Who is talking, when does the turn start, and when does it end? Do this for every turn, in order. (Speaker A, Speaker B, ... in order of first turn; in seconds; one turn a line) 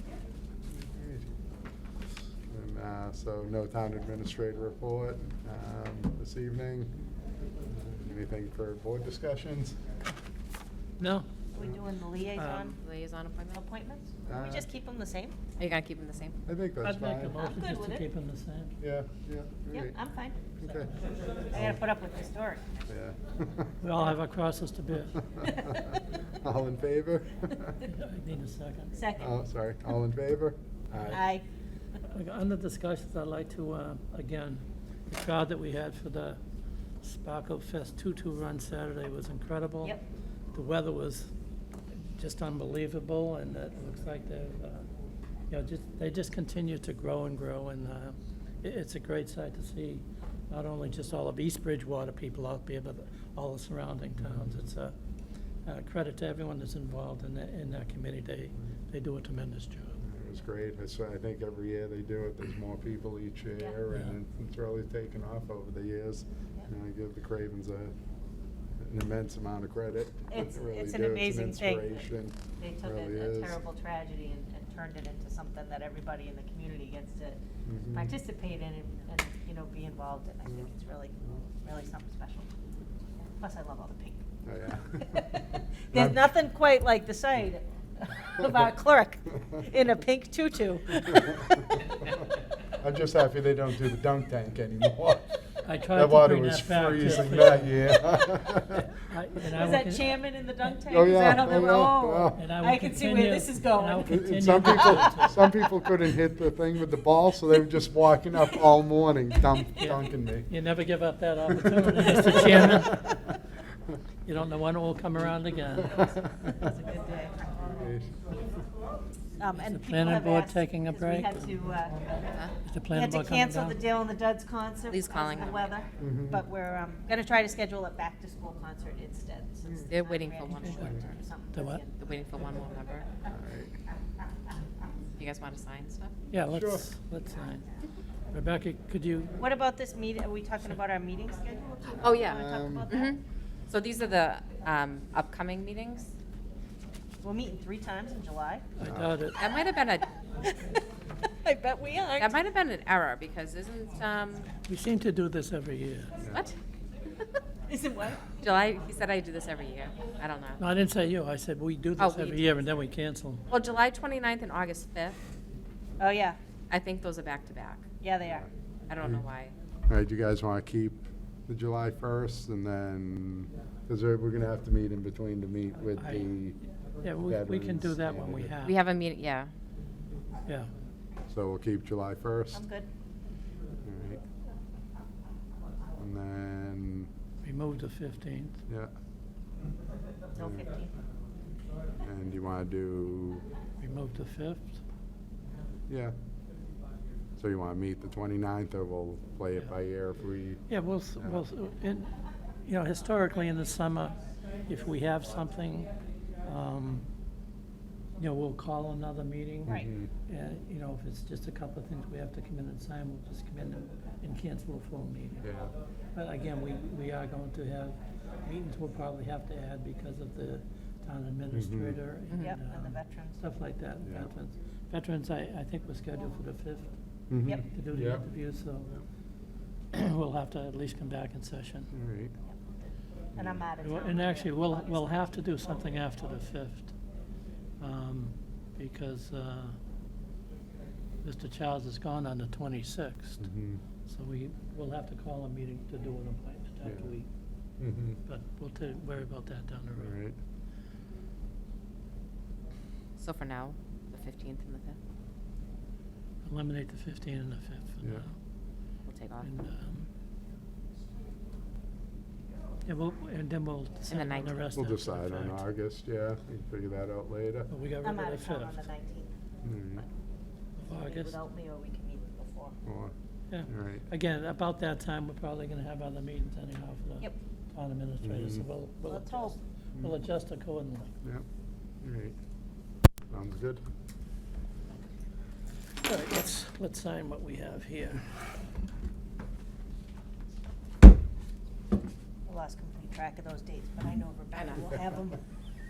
Speaker A: 0.7-1.3
Speaker A: 2.5-6.9
Speaker A: 7.7-9.8
Speaker B: 11.0-11.3
Speaker C: 11.5-12.8
Speaker D: 12.4-13.6
Speaker C: 13.5-15.3
Speaker A: 14.3-14.7
Speaker D: 15.6-16.4
Speaker A: 16.4-17.4
Speaker B: 16.8-18.8
Speaker C: 17.3-18.1
Speaker A: 18.8-19.9
Speaker C: 19.7-20.6
Speaker A: 20.6-20.9
Speaker C: 21.5-22.8
Speaker A: 22.9-23.7
Speaker B: 23.8-25.3
Speaker C: 25.5-25.9
Speaker A: 25.6-27.8
Speaker B: 27.8-29.0
Speaker C: 28.9-29.4
Speaker A: 29.2-31.2
Speaker C: 31.1-31.4
Speaker B: 32.1-36.4
Speaker B: 37.0-40.0
Speaker B: 40.5-41.3
Speaker B: 42.0-44.9
Speaker B: 45.5-54.9
Speaker A: 54.2-54.6
Speaker B: 55.6-60.0
Speaker A: 60.0-67.9
Speaker A: 68.8-73.6
Speaker C: 70.3-82.5
Speaker A: 77.6-78.2
Speaker C: 83.2-84.2
Speaker A: 84.5-86.3
Speaker C: 85.0-91.8
Speaker A: 91.2-91.7
Speaker A: 92.7-95.3
Speaker B: 95.6-97.8
Speaker A: 95.9-98.8
Speaker B: 98.7-100.8
Speaker C: 99.5-105.5
Speaker A: 100.9-102.4
Speaker B: 102.3-105.4
Speaker A: 104.1-110.5
Speaker C: 108.4-108.7
Speaker C: 109.3-109.7
Speaker B: 109.8-113.1
Speaker C: 112.2-112.5
Speaker A: 112.3-113.2
Speaker B: 114.2-116.0
Speaker A: 116.0-116.5
Speaker C: 116.0-117.4
Speaker A: 117.7-118.1
Speaker C: 119.4-122.1
Speaker B: 119.5-121.6
Speaker B: 122.6-123.8
Speaker C: 122.9-132.0
Speaker D: 124.9-125.7
Speaker A: 126.0-126.4
Speaker A: 129.6-129.9
Speaker D: 129.9-130.9
Speaker B: 130.5-130.9
Speaker B: 131.5-131.8
Speaker D: 131.9-133.1
Speaker A: 133.3-133.7
Speaker D: 135.2-136.1
Speaker B: 136.3-137.8
Speaker A: 136.5-136.8
Speaker B: 138.3-139.3
Speaker C: 139.4-143.2
Speaker D: 142.0-146.1
Speaker A: 142.3-142.9
Speaker C: 147.2-148.6
Speaker B: 148.8-149.5
Speaker A: 148.8-149.2
Speaker D: 149.4-150.1
Speaker C: 150.4-150.7
Speaker C: 151.3-152.3
Speaker D: 152.2-154.5
Speaker B: 154.7-156.2
Speaker D: 156.2-156.6
Speaker C: 157.7-158.4
Speaker D: 158.3-160.6
Speaker B: 160.6-163.4
Speaker D: 162.0-162.5
Speaker D: 163.5-165.2
Speaker C: 166.0-166.4
Speaker D: 166.7-167.8
Speaker C: 168.0-168.4
Speaker D: 168.9-169.5
Speaker A: 169.0-169.2
Speaker A: 169.9-176.6
Speaker B: 175.9-176.3
Speaker B: 177.0-178.8
Speaker A: 177.2-178.5
Speaker D: 178.6-179.5
Speaker B: 180.4-180.7
Speaker A: 181.3-182.6
Speaker C: 182.5-182.9
Speaker A: 183.8-184.2
Speaker A: 186.0-187.1
Speaker B: 187.4-188.6
Speaker C: 190.3-190.9
Speaker A: 190.3-190.6
Speaker A: 192.0-193.4
Speaker B: 193.8-194.8
Speaker A: 195.9-196.1
Speaker A: 197.4-200.7
Speaker B: 200.7-205.9
Speaker A: 201.2-201.4
Speaker B: 206.4-207.1
Speaker B: 208.2-215.5
Speaker C: 209.7-209.9
Speaker A: 209.7-210.1
Speaker A: 215.4-215.7
Speaker B: 216.1-226.9
Speaker A: 221.5-222.0
Speaker C: 222.4-223.4
Speaker A: 224.0-224.3
Speaker A: 227.3-228.3
Speaker B: 227.6-228.9
Speaker B: 229.9-231.9
Speaker A: 231.9-232.3
Speaker C: 232.5-235.8
Speaker A: 233.3-233.6
Speaker B: 233.8-236.9
Speaker B: 237.8-239.8
Speaker B: 241.2-243.5
Speaker A: 243.4-243.8
Speaker B: 244.0-247.3
Speaker A: 246.8-247.1
Speaker A: 247.8-248.2
Speaker B: 248.2-250.1
Speaker A: 249.9-250.3
Speaker D: 253.2-255.0
Speaker B: 256.4-258.3
Speaker D: 259.1-259.5
Speaker B: 259.4-260.1
Speaker B: 262.9-265.6
Speaker D: 264.1-264.6
Speaker A: 264.7-267.7
Speaker B: 267.7-268.9
Speaker C: 268.0-269.3
Speaker A: 269.6-270.0
Speaker B: 270.8-271.4
Speaker C: 270.9-272.8
Speaker A: 272.8-273.1
Speaker B: 273.5-281.1
Speaker A: 273.7-274.1
Speaker A: 278.2-278.6
Speaker C: 279.1-279.6
Speaker A: 282.0-282.4
Speaker A: 283.3-283.8
Speaker B: 286.0-288.2
Speaker C: 292.5-295.4
Speaker D: 294.5-295.0